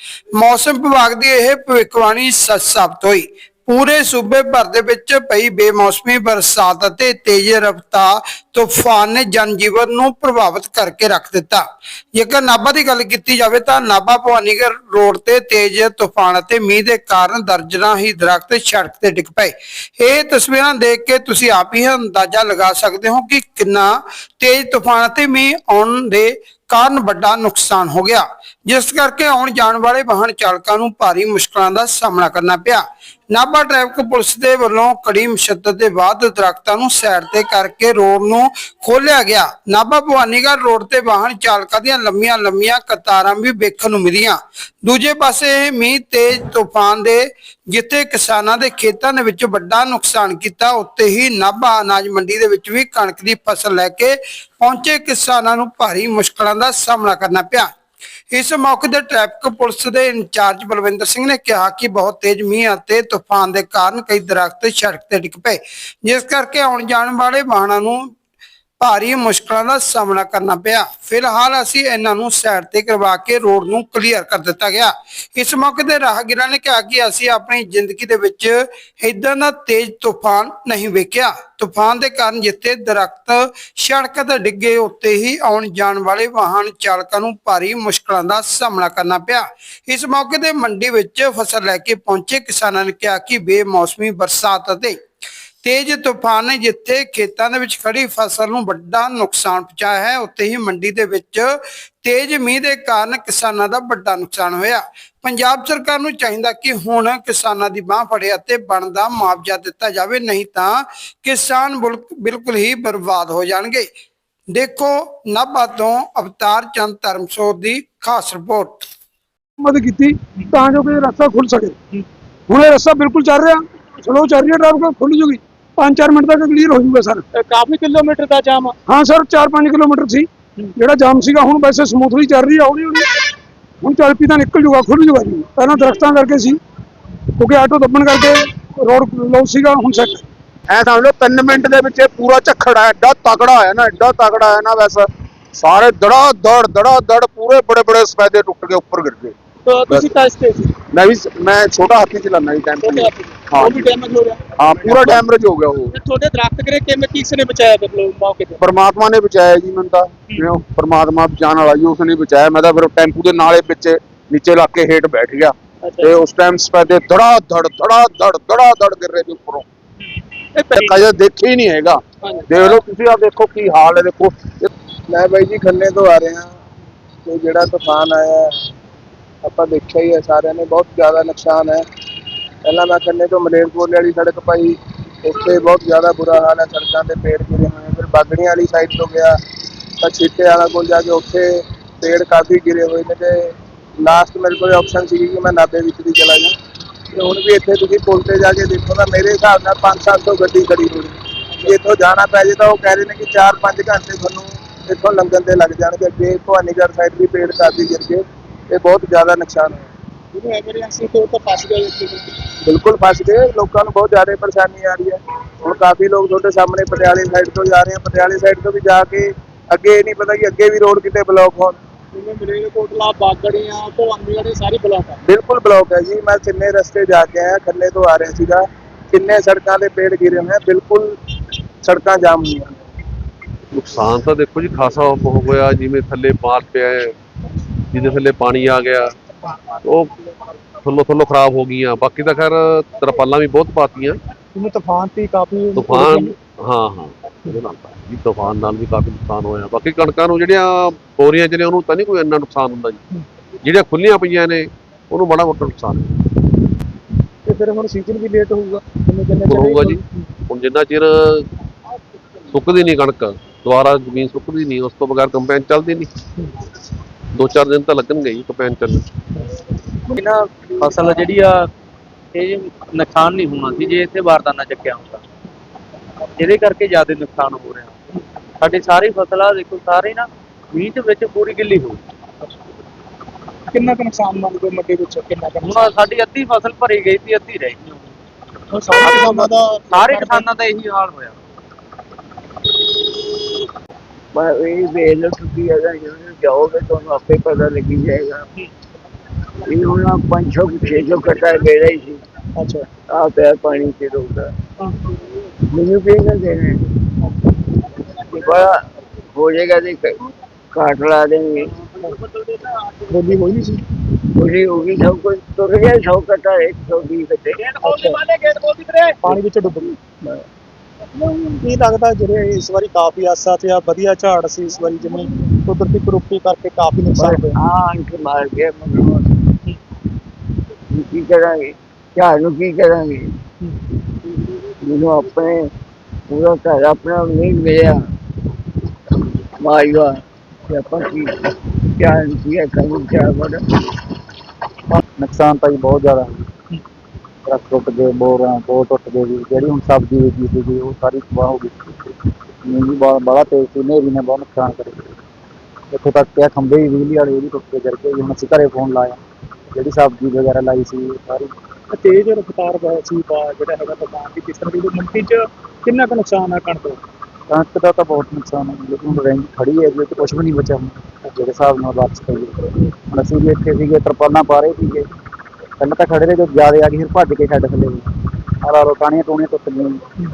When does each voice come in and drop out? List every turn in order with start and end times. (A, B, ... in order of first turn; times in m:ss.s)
0:00.4-0:11.6 A
0:12.1-0:57.7 A
0:58.3-1:08.0 A
1:08.8-1:35.0 A
1:35.6-1:53.9 A
1:54.5-1:58.8 A
1:59.6-2:01.7 B
2:02.5-2:07.2 B
2:07.3-2:08.8 C
2:08.9-2:10.3 B
2:10.8-2:13.1 B
2:13.8-2:16.6 B
2:17.4-2:20.2 B
2:20.7-2:29.3 D
2:29.6-2:30.7 C
2:30.9-2:33.9 D
2:32.7-2:35.2 C
2:34.6-2:35.9 D
2:35.9-2:38.6 C
2:38.6-2:49.6 D
2:45.8-2:46.1 C
2:50.6-2:51.0 C
2:50.7-2:54.7 D
2:55.1-2:56.5 E
2:57.2-2:58.5 E
2:59.4-3:01.8 E
3:02.6-3:09.3 E
3:10.0-3:11.5 E
3:12.0-3:13.4 E
3:14.0-3:16.5 E
3:17.1-3:29.9 E
3:30.3-3:32.3 C
3:32.6-3:41.8 E
3:42.1-3:45.2 C
3:45.2-3:51.1 E
3:51.8-3:52.7 E
3:53.7-3:57.1 F
3:57.9-3:59.1 F
3:59.8-4:00.1 F
4:00.8-4:04.2 F
4:04.5-4:06.3 C
4:05.7-4:13.0 F
4:13.6-4:16.2 F
4:17.4-4:20.0 C
4:19.5-4:21.5 F
4:22.5-4:26.1 F
4:27.3-4:29.0 F
4:30.1-4:31.6 G
4:32.3-4:35.2 G
4:36.4-4:38.0 G
4:38.6-4:42.0 G
4:43.7-4:46.0 C
4:45.7-4:48.2 G
4:48.7-4:50.5 C
4:49.1-4:49.5 G
4:50.0-4:51.4 G
4:54.3-4:58.4 H
4:59.6-5:02.2 H
5:02.6-5:02.9 C
5:03.1-5:04.5 H
5:05.7-5:06.8 H
5:08.3-5:08.8 H
5:09.3-5:10.2 H
5:10.7-5:12.1 H
5:13.1-5:13.8 C
5:14.4-5:18.0 H
5:17.8-5:18.2 C
5:18.8-5:19.3 H
5:19.2-5:20.0 C
5:21.4-5:27.6 C
5:27.1-5:29.2 H
5:30.9-5:33.4 H
5:34.8-5:35.7 H
5:36.3-5:38.0 H
5:39.6-5:43.6 H
5:44.9-5:46.4 I
5:47.5-5:52.0 I
5:52.6-5:55.1 I
5:55.9-5:59.2 I
5:59.7-6:01.5 I
6:01.9-6:07.0 C
6:07.5-6:15.1 I
6:15.8-6:20.0 I